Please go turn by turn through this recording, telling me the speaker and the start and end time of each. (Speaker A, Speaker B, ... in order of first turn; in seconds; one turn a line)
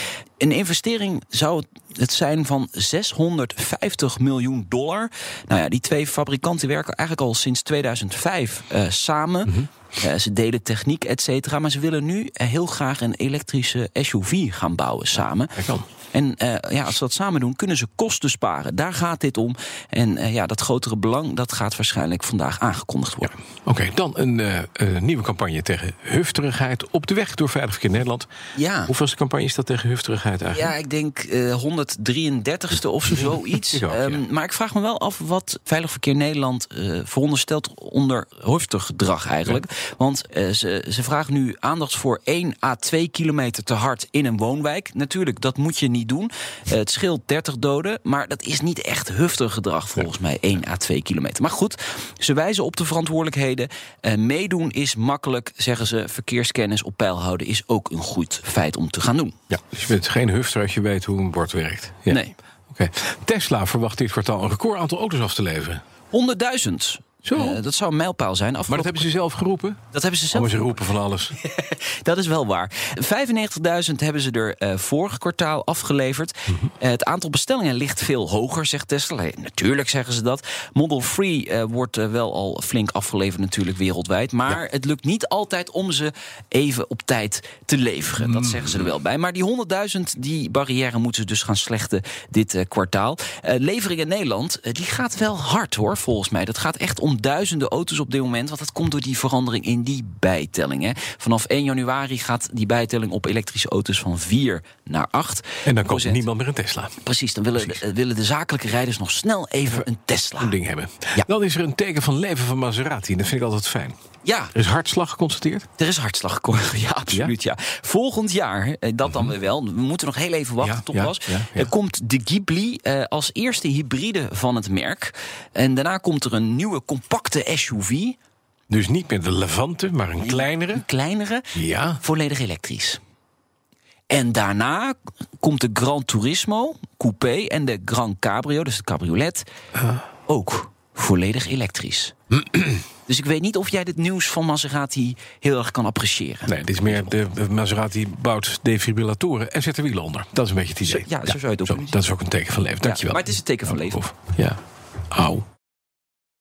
Speaker A: 0.4-15.6
Speaker B: 15.6-15.9
Speaker A: 16.1-23.4
Speaker B: 23.6-28.3
Speaker A: 28.6-28.9
Speaker B: 28.9-30.7
Speaker A: 30.5-59.4
Speaker B: 33.1-34.2
Speaker B: 59.5-65.8
Speaker A: 62.1-62.4
Speaker A: 66.1-69.1
Speaker B: 67.2-67.6
Speaker B: 68.7-69.8
Speaker A: 69.9-106.2
Speaker B: 70.3-71.3
Speaker B: 88.3-88.6
Speaker B: 105.6-107.0
Speaker A: 107.0-110.5
Speaker B: 110.4-114.0
Speaker A: 114.2-114.5
Speaker B: 114.5-115.7
Speaker A: 115.8-128.2
Speaker B: 120.6-121.7
Speaker B: 128.7-130.8
Speaker A: 130.2-133.0
Speaker B: 131.5-132.0
Speaker A: 134.1-139.4
Speaker A: 140.3-142.2
Speaker A: 143.0-147.1
Speaker B: 146.5-154.6
Speaker A: 150.8-152.0
Speaker A: 152.8-154.0
Speaker B: 155.1-155.4